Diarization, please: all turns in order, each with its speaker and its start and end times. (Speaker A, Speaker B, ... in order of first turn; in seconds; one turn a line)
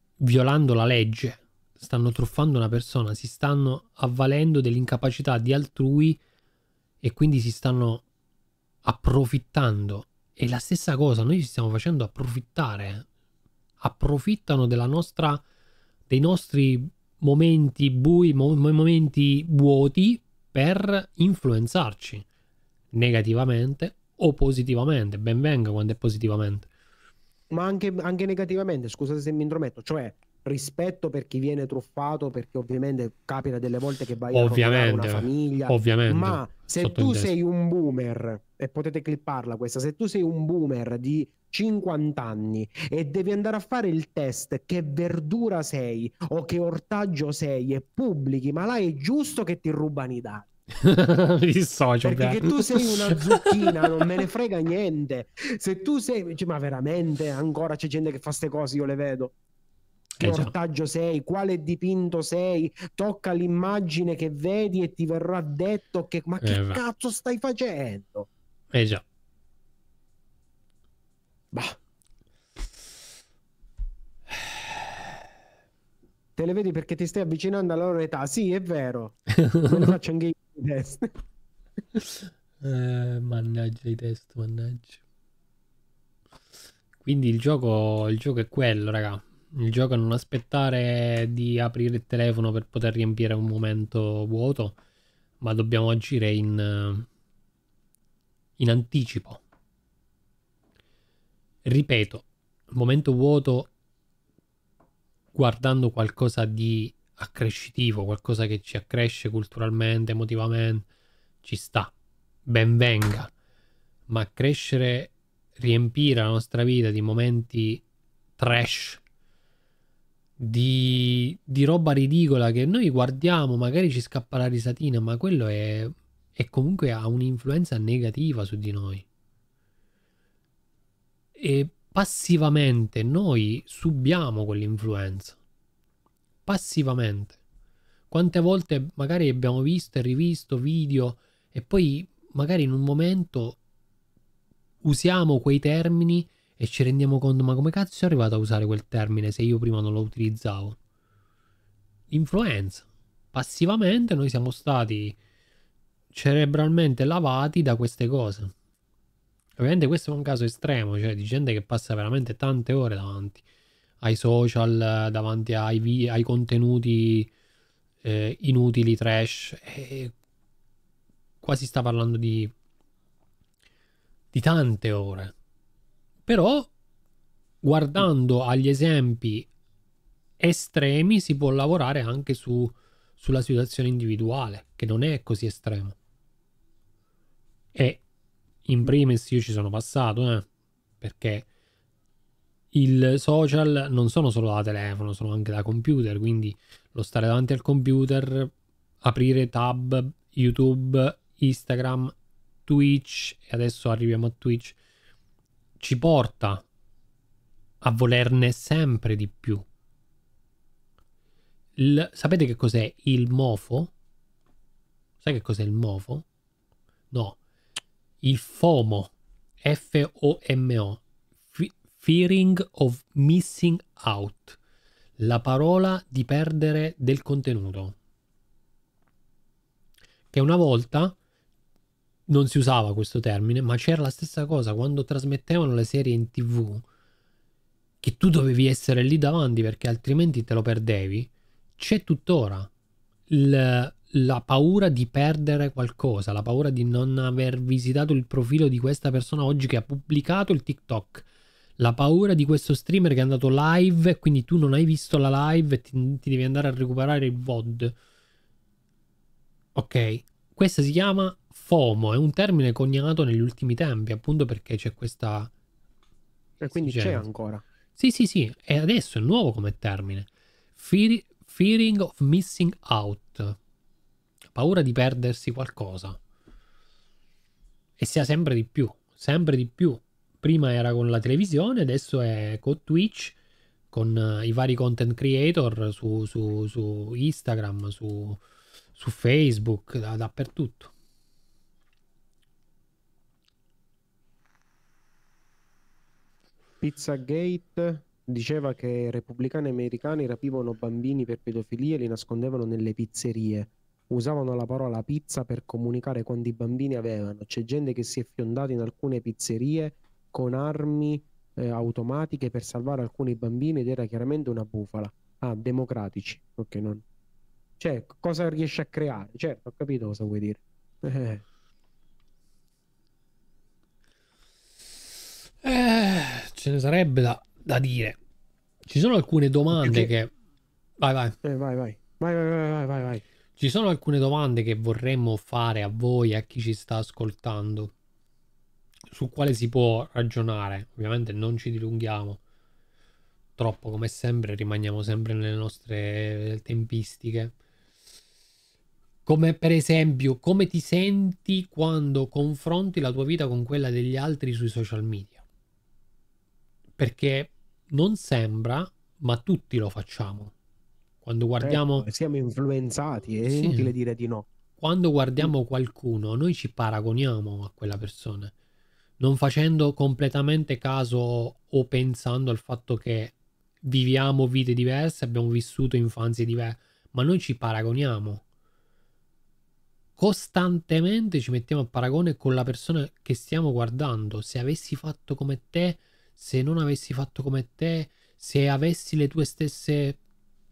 Speaker A: 0.2-6.2
Speaker A: 7.0-8.0
Speaker A: 8.8-13.1
Speaker A: 13.8-15.4
Speaker A: 16.1-22.2
Speaker A: 22.9-26.7
Speaker B: 27.5-50.5
Speaker A: 34.3-37.3
Speaker A: 50.8-54.1
Speaker B: 52.0-59.3
Speaker A: 60.2-60.5
Speaker B: 60.2-68.3
Speaker A: 66.4-66.8
Speaker A: 68.7-69.0
Speaker B: 71.5-71.8
Speaker B: 76.4-81.1
Speaker A: 79.3-79.9
Speaker A: 81.9-85.0
Speaker A: 87.0-94.8
Speaker A: 95.4-97.1
Speaker A: 98.6-99.4
Speaker A: 101.6-103.7
Speaker A: 105.3-110.9
Speaker A: 111.4-111.9
Speaker A: 112.5-113.3
Speaker A: 114.1-117.8
Speaker A: 118.4-119.0
Speaker A: 120.4-129.0
Speaker A: 131.3-135.4
Speaker A: 136.5-137.4
Speaker A: 138.1-143.6
Speaker A: 144.8-150.8
Speaker A: 152.1-155.2
Speaker A: 156.1-158.5
Speaker A: 159.6-163.4
Speaker A: 164.0-167.3
Speaker A: 168.0-170.1
Speaker A: 171.4-172.5
Speaker A: 174.3-175.3
Speaker A: 176.3-176.7
Speaker A: 177.6-179.5
Speaker A: 180.4-185.9
Speaker A: 187.7-188.0
Speaker A: 188.7-190.5
Speaker A: 191.0-191.5
Speaker A: 192.7-198.5
Speaker A: 199.0-202.1
Speaker A: 202.7-204.8
Speaker A: 205.8-206.6
Speaker A: 207.8-209.6
Speaker A: 211.8-213.9
Speaker A: 215.2-216.2
Speaker A: 217.1-217.4
Speaker A: 218.2-221.0
Speaker A: 221.5-224.6
Speaker A: 225.2-227.9
Speaker A: 230.3-231.2
Speaker A: 232.3-236.8
Speaker A: 238.0-242.7
Speaker A: 243.3-251.2
Speaker A: 251.8-257.9
Speaker A: 259.7-265.5
Speaker B: 266.6-267.6
Speaker A: 266.7-267.2
Speaker A: 267.9-273.6
Speaker A: 274.5-276.2
Speaker A: 278.0-283.4
Speaker A: 283.9-288.4
Speaker A: 289.0-290.9
Speaker B: 296.8-317.0
Speaker B: 317.8-321.4
Speaker A: 325.6-328.2
Speaker A: 328.9-330.3
Speaker B: 329.7-330.1
Speaker A: 331.0-331.4
Speaker B: 331.4-333.2
Speaker A: 333.6-337.9
Speaker A: 339.1-342.4
Speaker A: 343.6-347.5
Speaker A: 349.2-355.4
Speaker A: 357.0-360.5
Speaker A: 361.2-362.1
Speaker B: 361.6-364.5
Speaker A: 363.5-363.9
Speaker A: 364.8-368.5
Speaker A: 369.2-378.4
Speaker A: 380.2-390.2